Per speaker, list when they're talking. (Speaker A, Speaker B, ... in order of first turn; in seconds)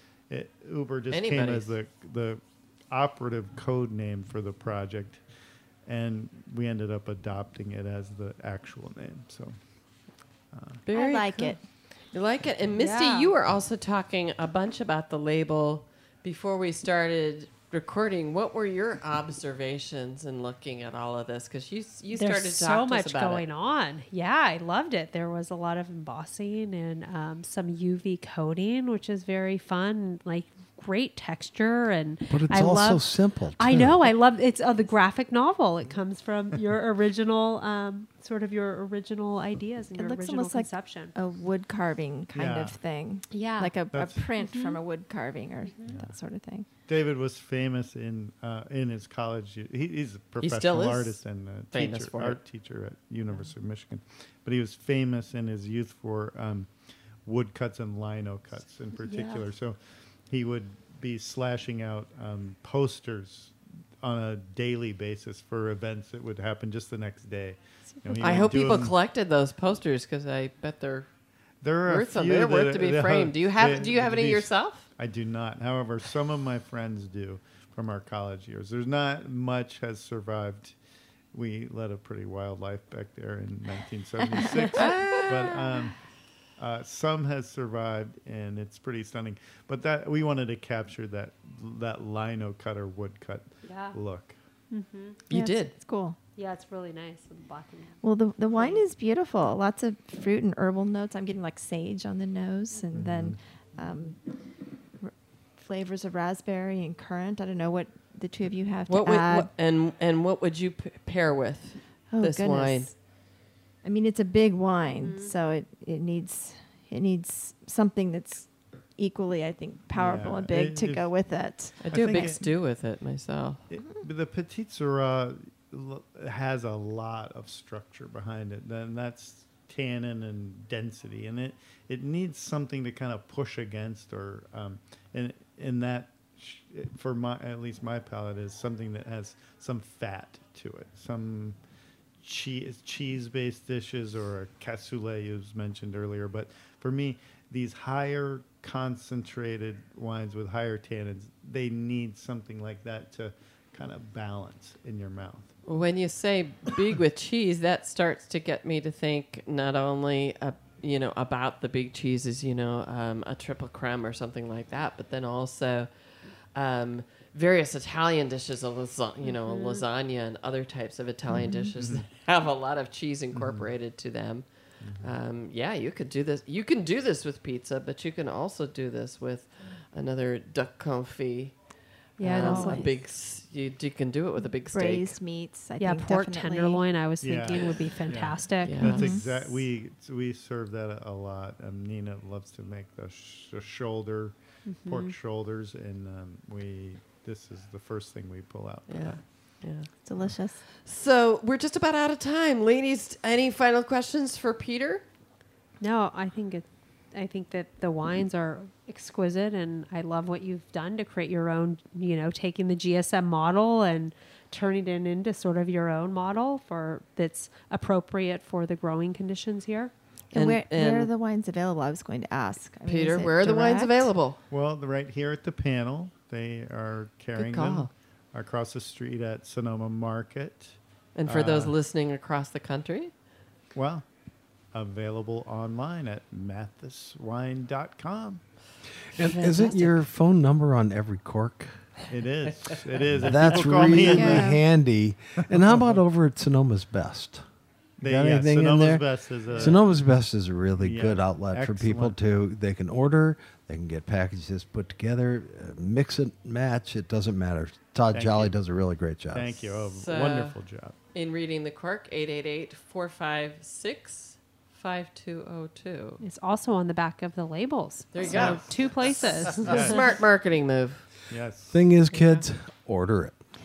Speaker A: 0.3-5.2, 5.9-9.6, 10.5-10.8, 42.3-42.8, 43.9-44.3, 45.9-46.2, 46.9-56.7, 57.2-59.8, 60.3-68.9, 71.6-80.8, 81.3-86.0, 86.6-94.4, 102.9-103.4, 119.9-121.1, 121.8-122.5, 123.7-141.6, 142.2-155.5, 171.8-172.1, 173.3-173.7, 174.8-175.2, 187.2-199.3, 224.5-231.8, 233.7-234.1, 234.7-238.4, 242.1-244.6, 245.6-246.0, 248.0-249.8, 250.8-252.2, 258.1-258.6, 259.3-261.0, 268.2-268.9, 269.7-270.0, 271.3-271.8
Speaker B: 1.1-1.7, 10.9-23.4, 50.4-51.2, 51.7-52.4, 68.2-71.1, 71.9-74.9, 84.7-85.6, 95.3-95.7, 108.9-112.9, 121.8-123.6, 155.7-165.9, 166.5-181.6, 182.2-185.2, 188.6-189.1, 198.9-199.9, 200.7-205.0, 220.3-221.1, 222.9-224.4, 227.4-227.9, 231.2-233.1, 239.2-240.0, 259.8-260.6, 261.1-266.2, 268.1-269.0, 269.5-271.1
Speaker C: 10.9-11.6, 40.0-46.7, 95.3-96.2, 98.0-104.2, 105.0-109.5, 112.1-113.0, 113.8-122.3, 171.3-171.7, 182.2-182.9, 184.7-186.8, 188.8-189.3, 200.0-200.6, 220.3-224.1, 244.1-244.6
Speaker D: 12.8-13.3, 22.1-41.1, 43.3-43.8, 44.4-44.8, 45.6-45.9, 59.0-59.5, 68.0-68.7, 93.7-94.0, 94.7-95.2, 96.4-98.8, 115.0-115.3, 169.2-169.8, 182.2-182.9, 185.8-189.2, 194.7-195.2, 205.8-219.9, 266.2-269.9, 272.1-272.4
Speaker E: 32.3-34.0, 239.2-241.9, 243.1-247.5, 248.0-259.6, 271.7-273.4